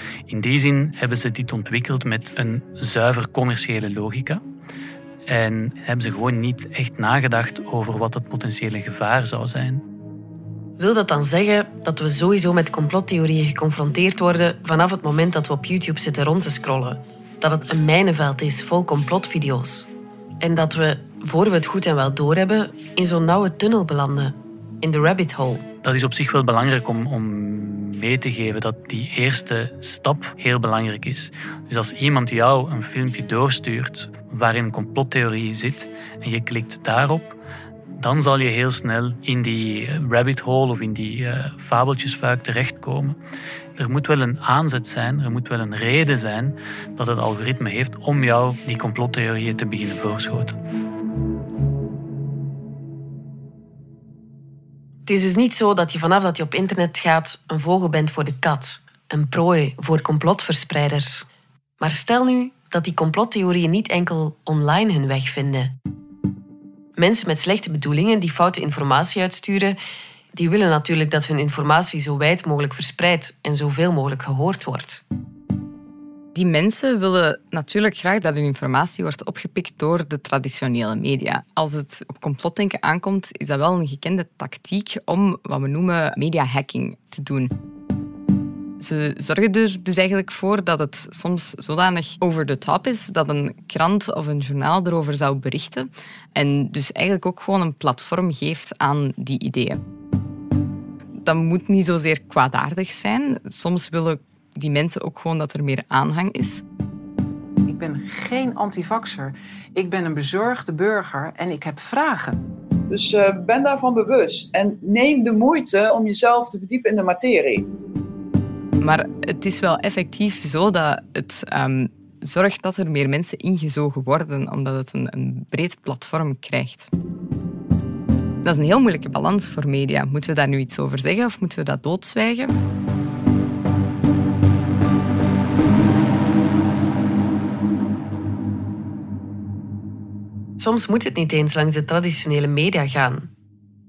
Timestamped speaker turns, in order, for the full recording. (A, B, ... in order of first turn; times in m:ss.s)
0:00.3-0:04.4 A
0:05.3-0:09.8 A
0:10.8-0:19.9 B
0:20.4-0:25.6 B
0:25.8-0:37.4 A
0:38.0-0:43.2 A
0:43.8-0:50.6 A
0:55.0-1:01.3 B
1:01.8-1:05.7 B
1:07.0-1:09.8 B
1:10.3-1:15.0 B
1:16.3-1:27.5 C
1:28.8-1:39.8 C
1:41.2-1:46.6 C
1:47.7-1:52.4 D
1:52.9-1:57.7 E
1:58.8-2:06.9 C
2:08.4-2:12.6 C
2:20.6-2:23.3 B